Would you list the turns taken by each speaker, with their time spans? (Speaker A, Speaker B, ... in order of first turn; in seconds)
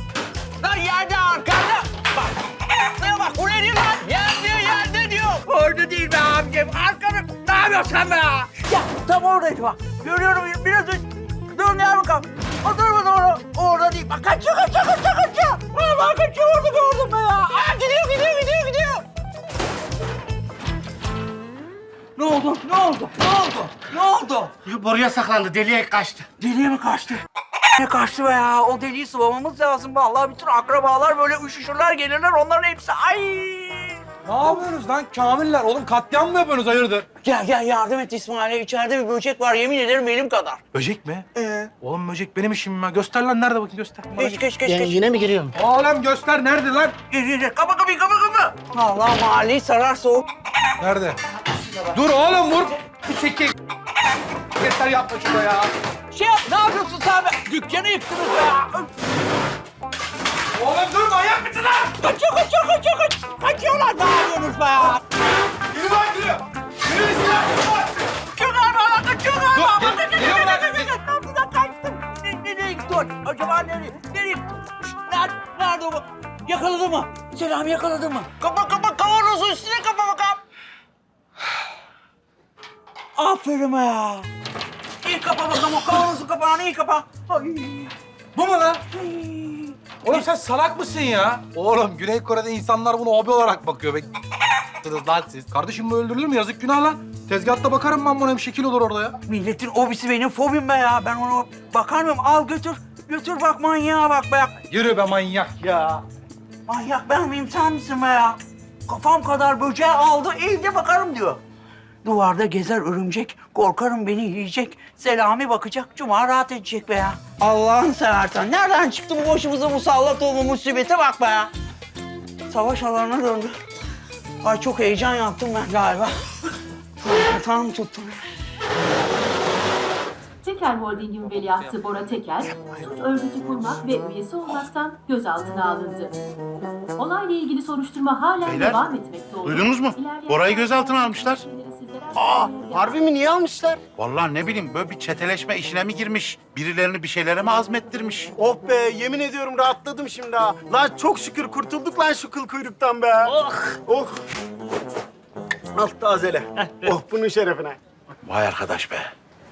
Speaker A: 0.6-19.1, 22.2-24.5, 26.4-27.2, 27.7-34.0, 37.2-40.6, 41.4-41.7, 44.1-45.2, 47.1-50.2, 56.1-58.9, 62.0-65.0, 68.3-80.4, 83.2-84.3, 85.0-87.9, 88.9-90.3, 99.2-104.5, 106.7-111.4, 112.0-121.5, 122.5-123.6, 124.4-126.2, 127.0-128.2
Speaker B: 24.6-26.3, 44.6-45.5, 153.3-153.8
Speaker C: 34.2-37.1, 40.7-44.2, 45.5-47.0, 50.8-51.2, 51.9-53.6, 54.5-55.7, 60.5-61.9, 65.7-67.9, 69.5-70.9, 88.3-88.8, 90.0-94.1, 94.8-99.2, 104.7-105.7
Speaker D: 130.4-136.2, 137.0-143.2
Speaker E: 138.4-138.8, 139.4-141.4, 144.0-148.3, 158.2-159.1
Speaker F: 142.2-143.8, 148.4-154.2, 155.8-157.8